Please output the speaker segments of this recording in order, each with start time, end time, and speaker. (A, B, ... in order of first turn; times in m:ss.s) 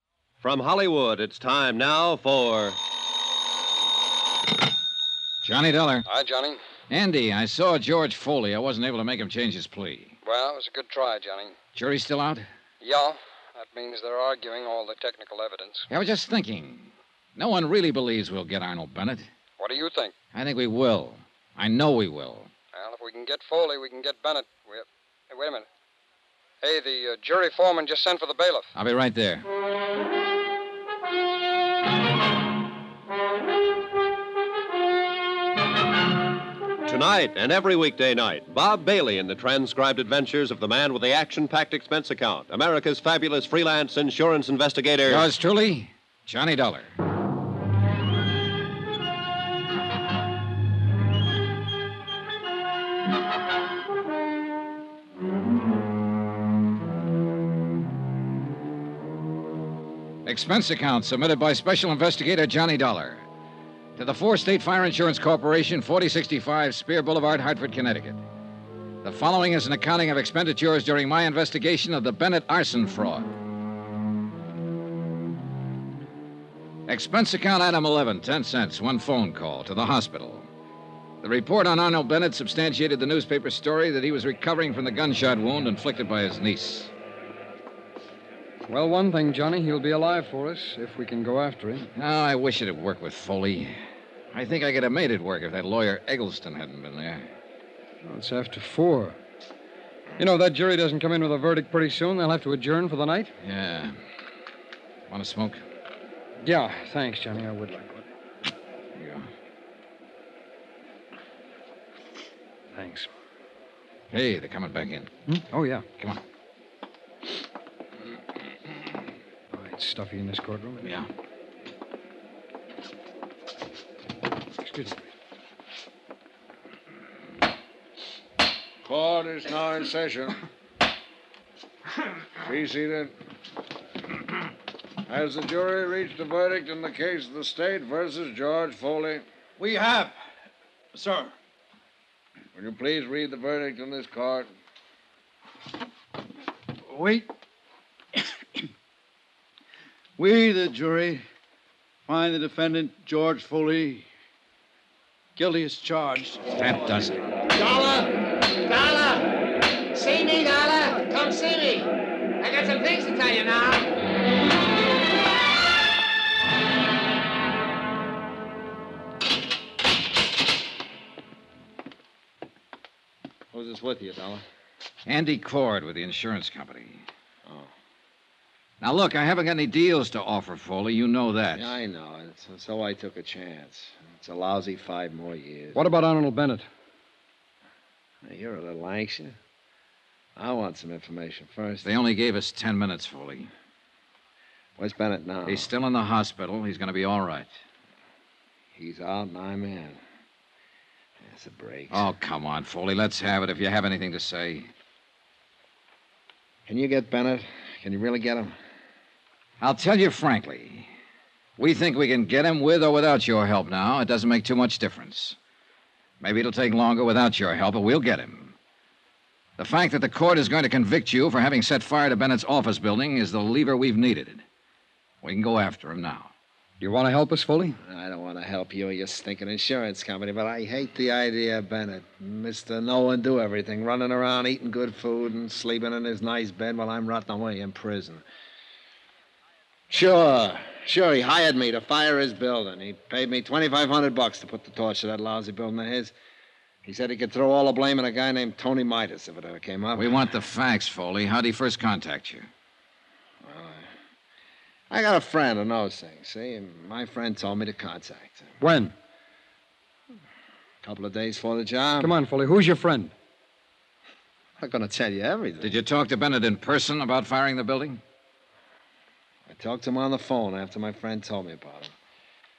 0:00.4-0:02.8 A
0:05.4-0:06.1 B
0:06.1-0:06.6 C
0:06.9-0:10.2 B
0:10.2-0:11.6 C
0:11.8-0:12.4 B
0:12.8-0:15.9 C
0:15.9-0:19.3 B
0:19.6-0:20.1 C
0:20.3-0:22.5 B
0:22.8-0:25.7 C
0:26.6-0:28.7 C
0:28.8-0:29.5 B
0:36.8-0:45.3 A
0:45.1-0:46.9 B
1:00.2-1:03.3 B
1:04.0-1:08.2 B
1:09.0-1:13.3 B
1:16.9-1:20.5 B
1:21.2-1:26.9 B
1:28.7-1:31.9 C
1:32.0-1:33.7 B
1:34.3-1:37.3 B
1:38.0-1:39.2 C
1:40.2-1:43.3 C
1:43.4-1:43.9 B
1:45.1-1:45.6 B
1:46.4-1:48.0 C
1:49.0-1:49.3 B
1:52.8-1:53.1 C
1:54.1-1:55.1 B
1:55.3-1:55.8 C
1:59.5-2:00.9 C
2:00.8-2:01.1 B
2:04.6-2:05.0 C
2:08.8-2:10.4 D
2:12.4-2:13.1 D
2:15.0-2:19.2 D
2:19.6-2:20.2 E
2:20.9-2:21.3 E
2:22.6-2:24.5 D
2:26.9-2:27.3 E
2:30.2-2:31.3 E
2:32.1-2:34.1 E
2:35.4-2:36.5 E
2:36.6-2:37.2 B
2:37.5-2:39.3 F
2:39.9-2:41.9 F
2:42.4-2:43.9 F
2:53.5-2:54.4 D
2:55.1-2:57.0 B
2:57.5-2:57.7 D
2:58.8-3:01.8 B
3:01.6-3:06.0 D
3:05.7-3:06.7 C
3:08.2-3:09.4 D
3:10.4-3:11.9 D
3:11.8-3:13.5 B
3:14.8-3:15.7 D
3:15.5-3:17.5 B
3:18.8-3:20.0 D
3:21.3-3:22.1 D
3:21.9-3:24.7 B
3:26.7-3:28.5 D
3:29.6-3:30.9 B
3:31.6-3:35.4 B
3:36.2-3:38.6 B
3:39.6-3:44.4 B
3:45.2-3:46.3 B
3:46.8-3:47.8 C
3:47.8-3:58.2 D
3:59.9-4:06.1 D
4:06.8-4:10.2 D
4:10.0-4:12.5 B
4:13.4-4:13.9 D
4:14.9-4:18.5 D
4:18.6-4:18.9 C
4:20.8-4:22.2 D
4:22.0-4:23.1 C
4:24.6-4:25.8 D
4:25.6-4:28.0 B
4:29.5-4:31.9 D